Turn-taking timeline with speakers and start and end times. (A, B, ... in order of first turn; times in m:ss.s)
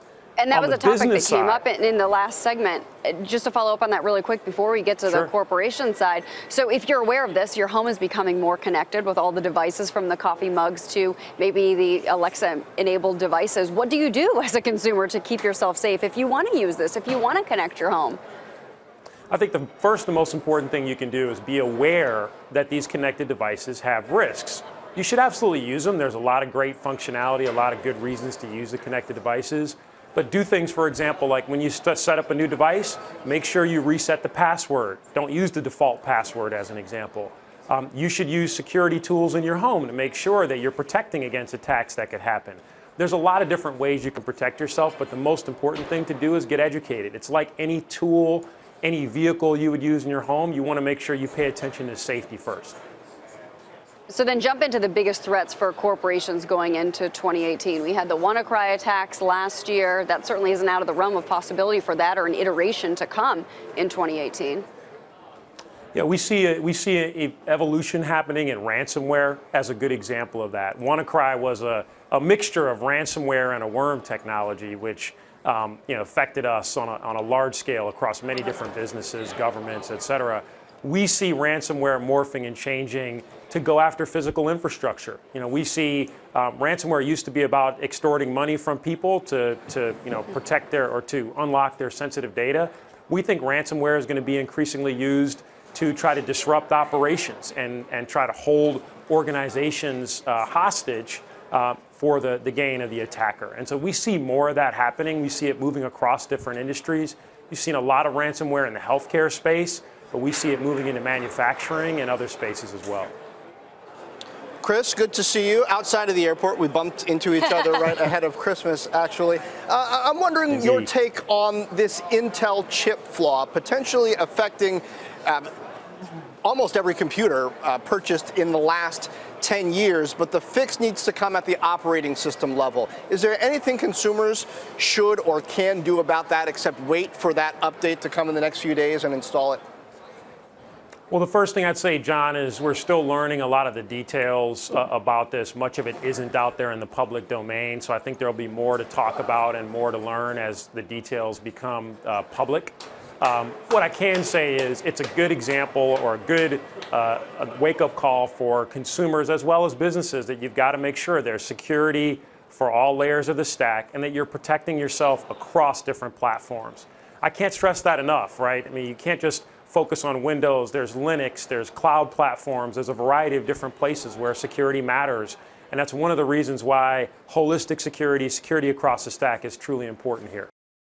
0:00.4-0:18.2 A
0:00.5-0:01.6 B
0:05.1-0:05.3 B
0:19.3-0:52.8 B
0:54.1-1:04.7 A
1:05.9-1:53.1 B
1:54.6-2:05.5 C
2:00.5-2:00.9 B
2:06.4-2:19.6 C
2:21.1-3:00.5 B